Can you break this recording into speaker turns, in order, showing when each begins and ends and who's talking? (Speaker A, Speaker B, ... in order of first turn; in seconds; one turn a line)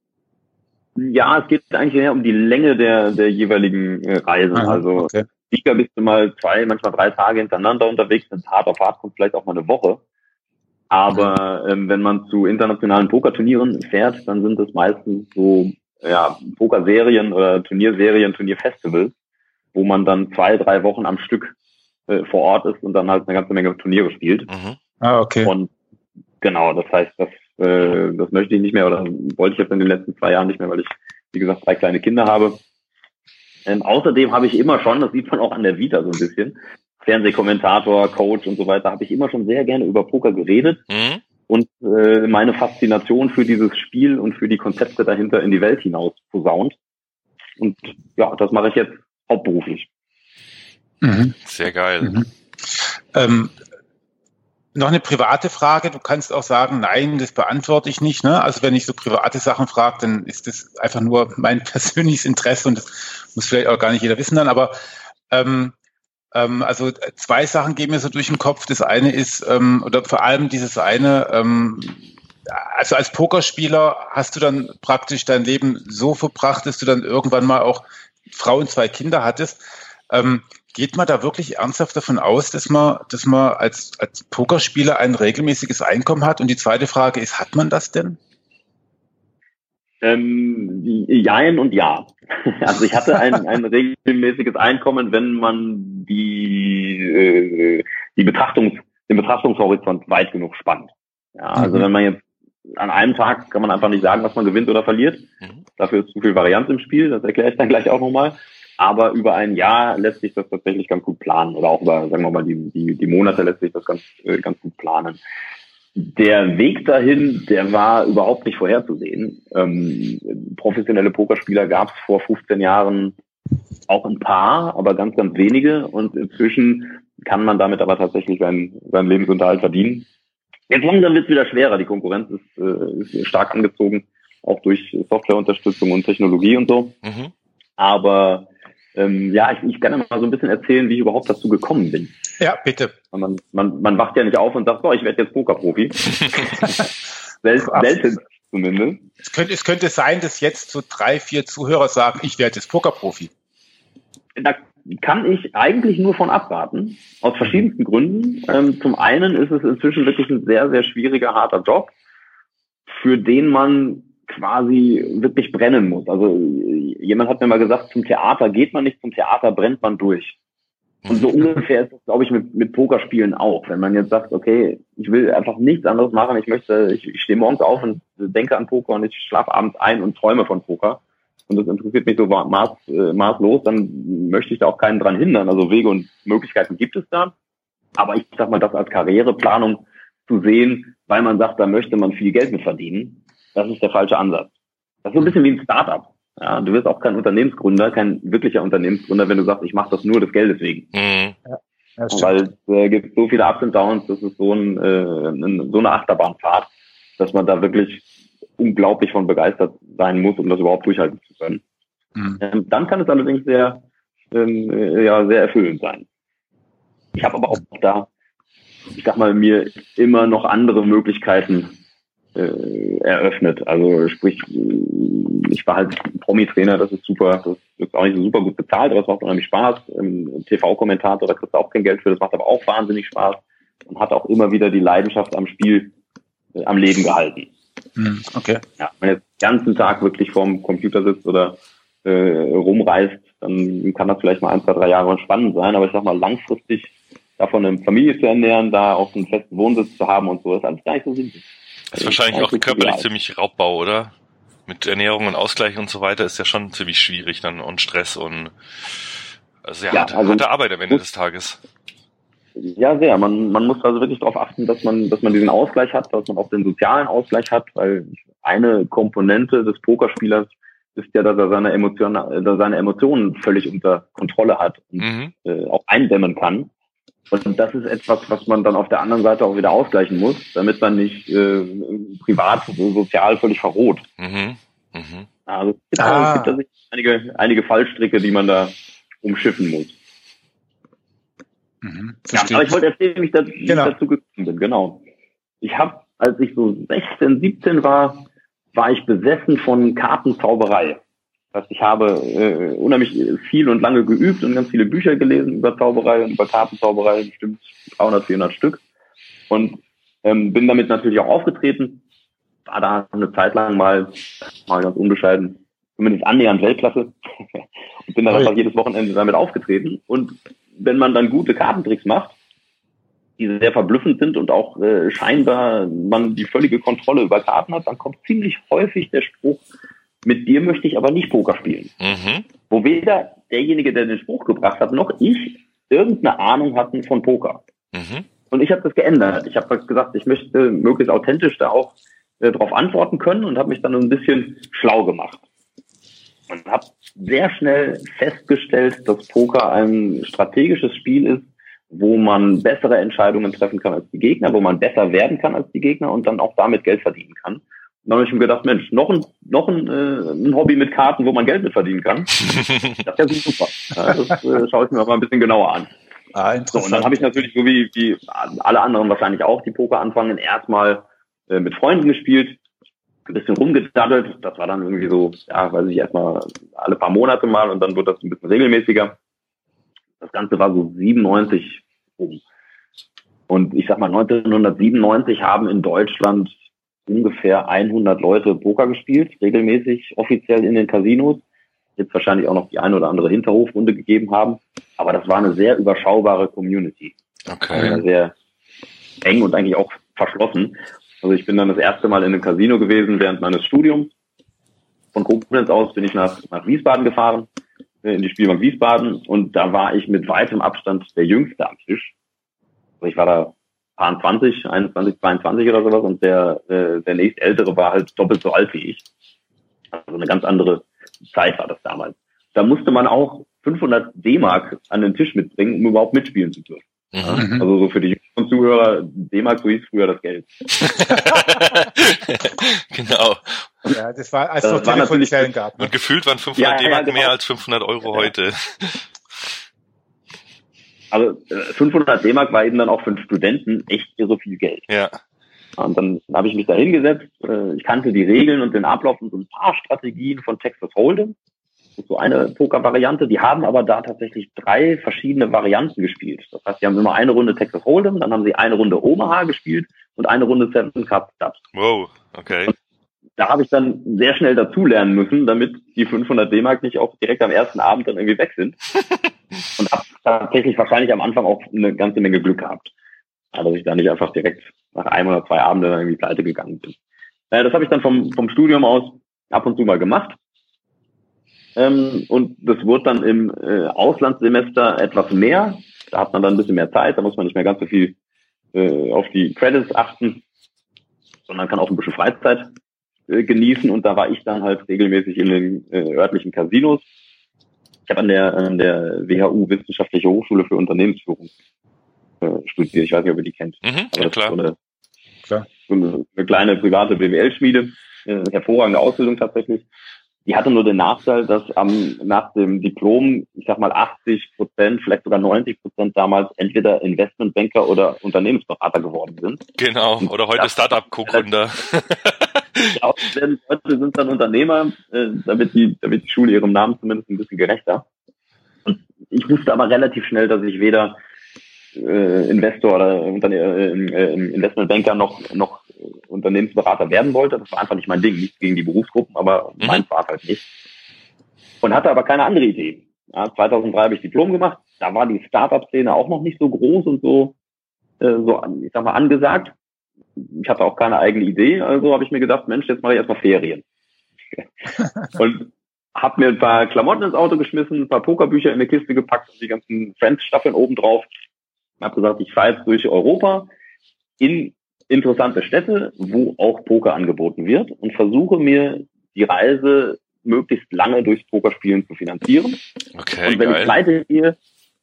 Speaker A: 0.9-10.0
Speaker B: 4.5-5.2
Speaker A: 10.9-19.1
Speaker A: 19.7-21.6
Speaker A: 22.1-24.5
Speaker C: 24.5-24.8
Speaker B: 25.0-25.5
Speaker A: 25.4-25.7
Speaker A: 26.4-32.6
Speaker A: 33.6-40.8
Speaker C: 40.9-41.2
Speaker A: 41.5-46.8
Speaker A: 47.6-49.9
Speaker B: 51.0-51.4
Speaker C: 51.4-52.2
Speaker B: 52.0-53.5
Speaker B: 54.7-64.7
Speaker B: 65.3-65.7
Speaker B: 66.3-88.2
Speaker A: 90.0-105.2
Speaker B: 101.6-101.8
Speaker A: 105.8-115.2
Speaker A: 116.0-123.2
Speaker A: 123.9-130.1
Speaker A: 130.7-136.9
Speaker C: 137.0-137.3
Speaker A: 137.8-142.1
Speaker B: 142.4-142.9
Speaker A: 143.1-146.8
Speaker A: 147.4-149.0
Speaker B: 147.6-147.9
Speaker B: 149.2-153.3
Speaker A: 154.3-161.9
Speaker A: 162.9-170.4
Speaker C: 171.0-171.4
Speaker A: 171.1-187.3
Speaker A: 188.0-194.5
Speaker A: 195.0-200.9
Speaker C: 200.9-201.3
Speaker B: 202.0-202.3
Speaker A: 202.1-208.0
Speaker A: 208.6-211.6
Speaker A: 212.4-216.1
Speaker A: 217.2-218.1
Speaker A: 218.9-221.8
Speaker A: 222.3-235.9
Speaker A: 236.5-237.5
Speaker B: 237.9-238.6
Speaker A: 238.8-253.0
Speaker C: 251.9-254.1
Speaker C: 254.7-258.5
Speaker C: 259.6-261.6
Speaker A: 259.9-261.0
Speaker A: 262.6-276.7
Speaker C: 275.0-275.3
Speaker A: 277.3-284.0
Speaker C: 284.2-285.3
Speaker A: 285.5-289.9
Speaker B: 286.0-286.5
Speaker B: 291.8-292.7
Speaker A: 292.3-295.0
Speaker B: 293.7-293.9
Speaker A: 295.6-301.0
Speaker A: 301.5-308.8
Speaker A: 309.5-312.0
Speaker A: 312.6-322.4
Speaker A: 323.4-329.6
Speaker A: 330.2-331.9
Speaker C: 332.0-332.4
Speaker A: 332.7-337.6
Speaker C: 337.9-338.3
Speaker A: 338.5-345.4
Speaker A: 346.5-362.4
Speaker A: 363.0-365.9
Speaker B: 366.3-367.4
Speaker A: 366.7-372.6
Speaker A: 373.3-379.1
Speaker A: 380.2-382.4
Speaker A: 383.5-391.4
Speaker A: 392.0-397.1
Speaker C: 397.5-398.0
Speaker A: 397.7-398.4
Speaker A: 399.2-404.1
Speaker A: 405.1-407.5
Speaker A: 408.0-412.1
Speaker A: 413.0-419.0
Speaker A: 419.9-430.5
Speaker C: 427.1-427.4
Speaker B: 427.4-427.7
Speaker C: 430.8-433.7
Speaker B: 433.9-435.9
Speaker A: 434.6-435.5
Speaker C: 435.8-439.0
Speaker A: 436.6-437.3
Speaker A: 441.1-444.8
Speaker C: 444.9-445.1
Speaker A: 445.8-451.3
Speaker A: 452.0-461.6
Speaker C: 461.7-462.7
Speaker A: 463.4-468.8
Speaker A: 469.8-472.9
Speaker A: 473.5-476.9
Speaker A: 477.5-480.4
Speaker A: 481.8-488.1
Speaker A: 488.7-490.4
Speaker A: 491.5-492.7
Speaker A: 493.3-497.0
Speaker A: 498.1-501.5
Speaker A: 502.4-504.8
Speaker C: 503.8-504.5
Speaker A: 505.9-509.8
Speaker A: 510.4-519.6
Speaker C: 519.8-523.0
Speaker A: 520.2-521.4
Speaker A: 522.9-528.0
Speaker A: 528.9-531.1
Speaker A: 532.0-540.7
Speaker A: 541.8-547.5
Speaker A: 548.2-549.7
Speaker A: 550.4-553.8
Speaker A: 555.4-561.3
Speaker A: 562.0-563.7
Speaker A: 564.4-572.8
Speaker C: 573.1-573.9
Speaker A: 573.5-574.5